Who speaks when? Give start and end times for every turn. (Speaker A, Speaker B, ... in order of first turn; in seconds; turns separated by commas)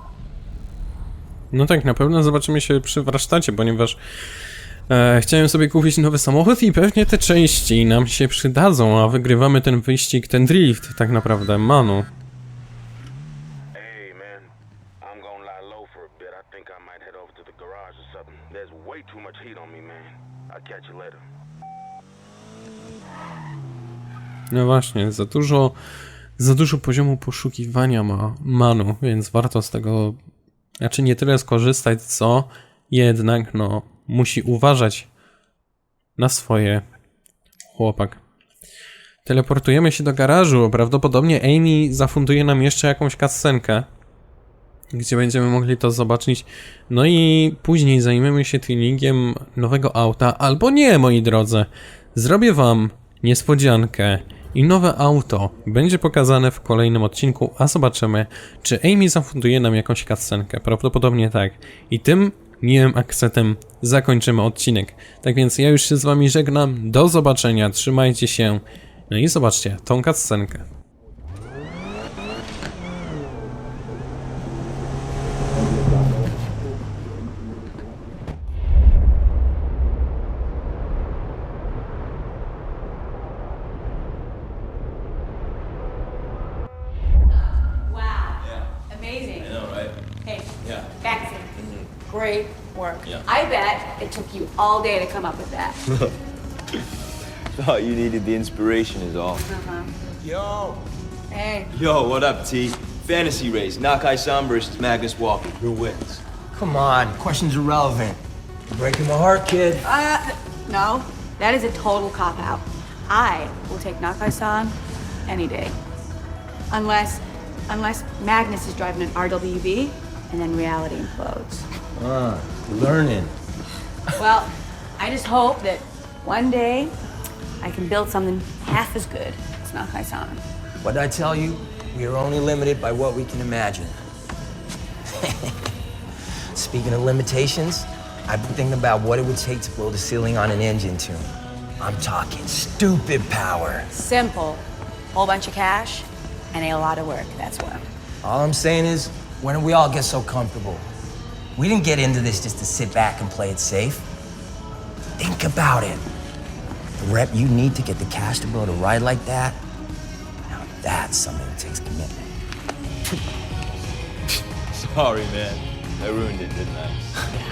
Speaker A: 1.5-4.0, Speaker A: 4.9-12.1, Speaker B: 13.7-21.2, Speaker A: 24.5-25.8, Speaker A: 26.4-30.2, Speaker A: 30.8-35.1, Speaker A: 36.2-36.8, Speaker A: 37.7-38.2, Speaker A: 39.2-43.9, Speaker A: 44.9-70.7, Speaker C: 87.8-89.6, Speaker C: 90.2-91.5, Speaker D: 91.6-91.9, Speaker C: 92.0-95.8, Speaker D: 97.6-99.4, Speaker C: 99.5-99.9, Speaker E: 100.2-100.8, Speaker C: 101.3-101.7, Speaker D: 101.7-106.2, Speaker E: 106.5-108.2, Speaker E: 108.7-109.9, Speaker C: 109.8-114.8, Speaker C: 115.3-115.8, Speaker C: 116.7-121.7, Speaker E: 122.0-123.3, Speaker C: 124.2-126.9, Speaker C: 127.6-130.4, Speaker E: 130.8-133.9, Speaker E: 135.2-135.5, Speaker E: 136.5-141.3, Speaker E: 141.8-143.9, Speaker C: 143.9-147.8, Speaker E: 148.2-150.9, Speaker E: 151.6-154.1, Speaker E: 155.2-156.0, Speaker E: 157.0-159.6, Speaker E: 160.5-162.3, Speaker D: 164.7-167.1